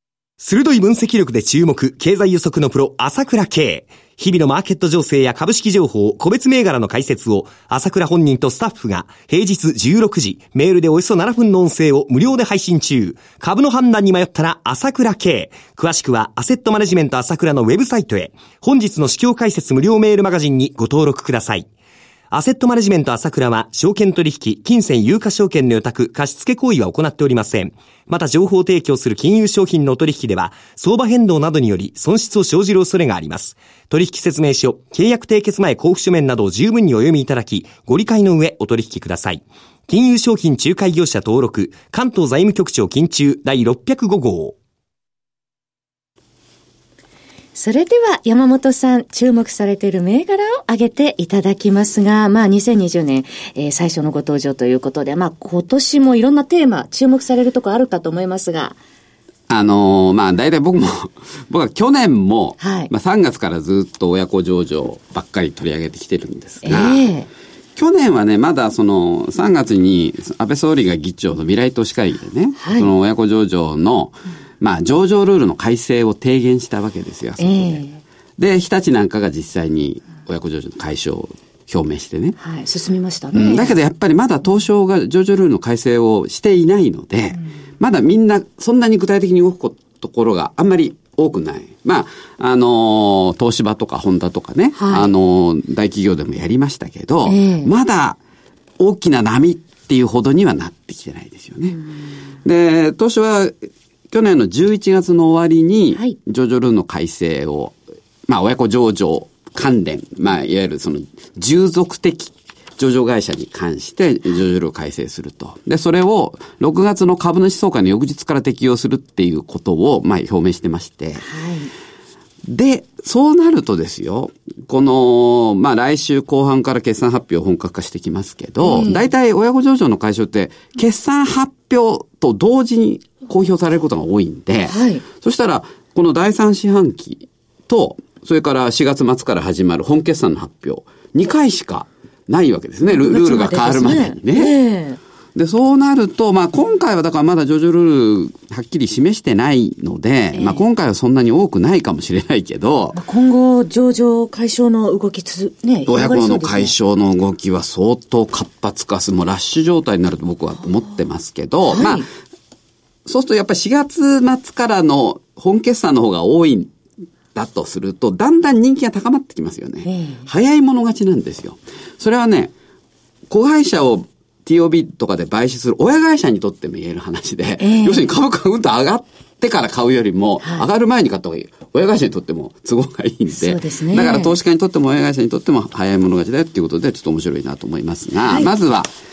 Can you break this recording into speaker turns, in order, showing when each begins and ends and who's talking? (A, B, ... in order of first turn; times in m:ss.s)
0:00.4-0:21.7 A
0:22.3-0:44.6 A
0:47.5-0:58.8 B
0:59.5-1:07.1 C
1:02.6-1:02.9 B
1:06.6-1:07.3 B
1:07.8-1:17.8 C
1:12.6-1:12.9 B
1:17.4-1:18.0 B
1:18.4-1:22.4 C
1:22.4-1:23.7 B
1:23.3-1:38.2 C
1:34.8-1:35.1 B
1:37.2-1:37.7 B
1:38.8-1:41.8 C
1:42.4-1:43.6 C
1:44.1-1:47.8 C
1:48.3-2:01.3 C
2:01.2-2:01.7 B
2:02.4-2:24.6 C
2:08.6-2:09.1 B
2:14.7-2:15.0 B
2:22.8-2:25.0 B
2:25.3-2:33.0 C
2:30.3-2:30.6 B
2:32.9-2:36.7 B
2:35.9-2:42.1 C
2:41.7-2:42.0 B
2:43.0-2:46.7 C
2:47.3-2:52.5 C
2:49.8-2:50.2 B
2:53.3-3:08.9 C
2:57.6-2:58.1 B
3:03.3-3:04.3 B